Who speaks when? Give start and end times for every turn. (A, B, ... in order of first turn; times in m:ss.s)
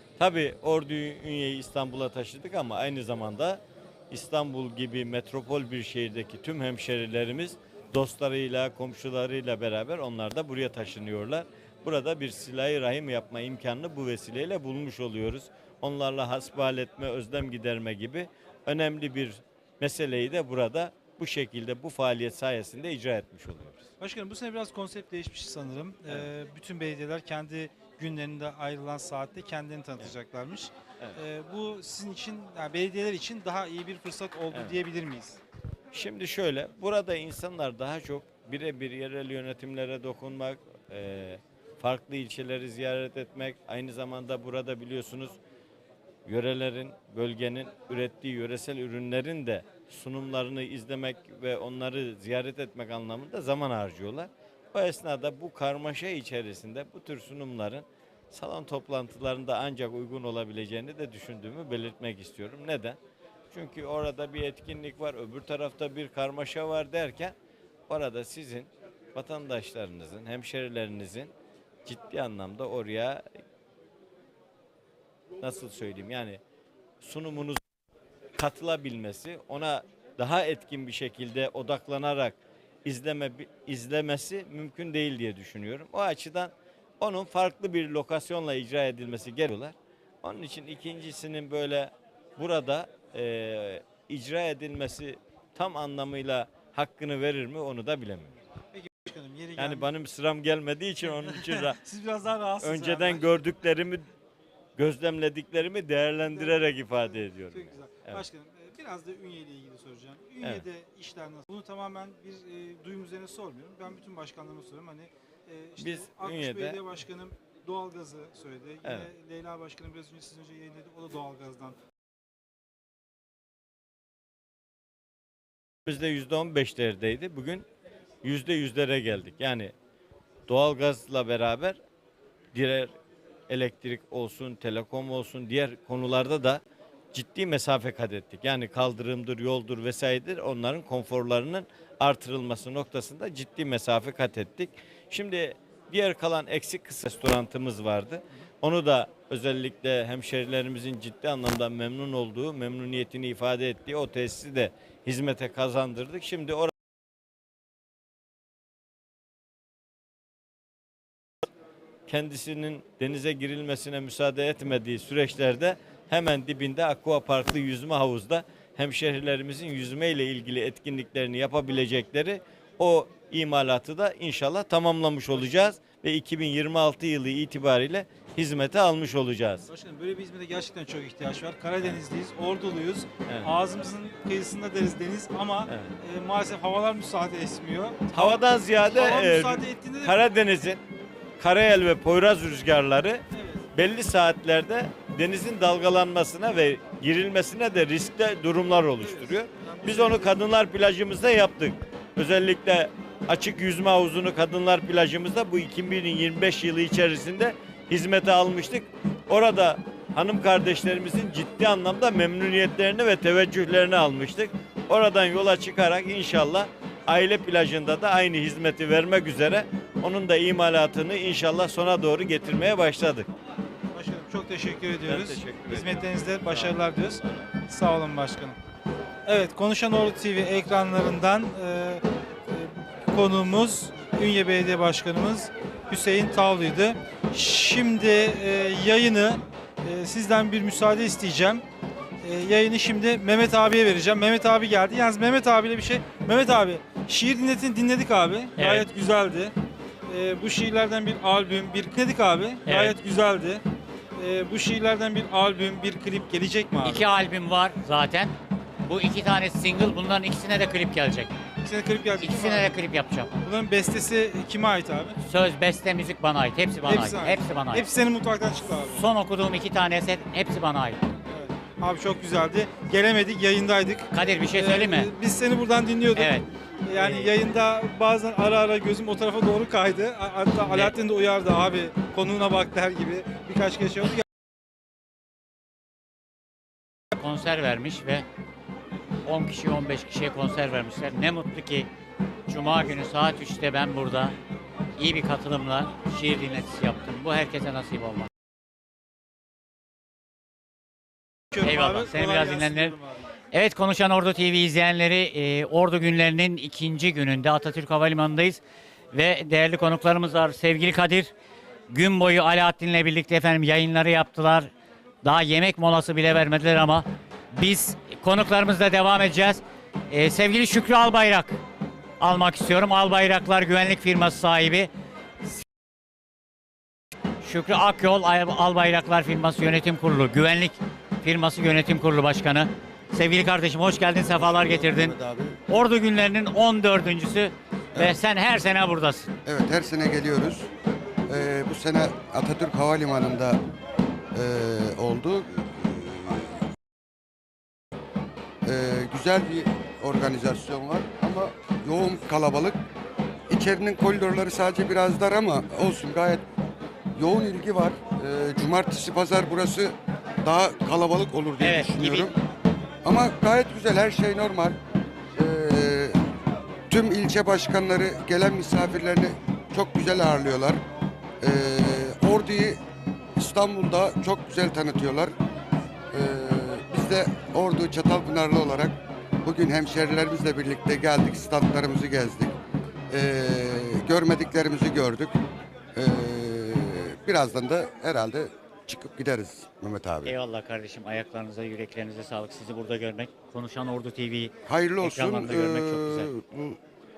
0:00.2-0:23.8 A
0:24.0-0:35.4 B
0:34.5-0:34.8 A
0:35.9-0:45.4 A
0:46.2-1:03.0 A
1:03.5-1:07.3 A
1:07.9-1:11.3 A
1:11.8-1:13.2 A
1:15.4-1:16.4 A
1:17.0-1:17.6 A
1:18.4-1:38.3 A
1:38.7-1:39.9 B
1:39.6-1:41.8 A
1:41.1-1:43.5 B
1:42.6-1:44.0 A
1:44.8-1:48.2 A
1:46.3-2:01.8 B
1:55.8-1:56.8 A
1:58.8-1:59.1 A
2:05.9-2:07.6 A
2:08.2-2:09.7 A
2:10.5-2:11.8 A
2:12.5-2:12.9 A
2:13.5-2:16.6 A
2:17.1-2:36.7 A
2:42.1-2:59.6 A
2:59.7-3:10.2 B
3:03.3-3:03.5 A
3:08.1-3:10.8 A
3:11.4-3:13.2 A
3:13.3-3:13.7 B
3:13.7-3:43.3 A
3:19.2-3:20.4 B
3:43.9-3:48.6 B
3:45.0-3:47.4 A
3:49.2-4:01.6 B
4:02.2-4:09.5 B
4:08.6-4:08.8 C
4:10.1-4:13.6 B
4:12.6-4:12.9 C
4:14.2-4:17.1 B
4:16.8-4:21.3 C
4:21.6-4:22.8 B
4:22.2-4:23.3 C
4:23.4-4:25.2 B
4:25.2-4:27.8 C
4:26.8-4:29.0 B
4:28.9-4:31.0 C
4:31.3-4:44.2 B
4:34.1-4:35.1 C
4:36.1-4:37.3 C
4:40.6-4:40.9 C
4:47.1-4:48.2 C
4:49.2-4:51.9 C
4:52.5-4:54.4 C
4:55.0-4:58.3 C
5:01.5-5:03.2 B
5:01.6-5:03.0 C
5:03.5-5:08.6 C
5:09.1-5:11.3 C
5:11.9-5:14.7 C
5:15.2-5:21.6 C
5:22.2-5:24.9 C
5:27.4-5:35.1 C
5:34.4-5:35.6 D
5:35.7-5:39.3 C
5:39.4-5:40.7 D
5:41.3-5:43.6 D
5:44.3-5:46.6 D
5:48.6-5:52.8 D
5:53.5-5:56.4 D
5:57.2-6:02.3 D
6:01.6-6:02.3 C
6:03.0-6:04.8 D
6:05.4-6:06.2 D
6:06.9-6:10.8 D
6:11.4-6:12.8 D
6:13.4-6:15.3 D
6:16.1-6:22.5 D
6:23.1-6:25.3 D
6:25.9-6:30.4 D
6:30.2-6:36.3 C
6:34.6-6:36.8 D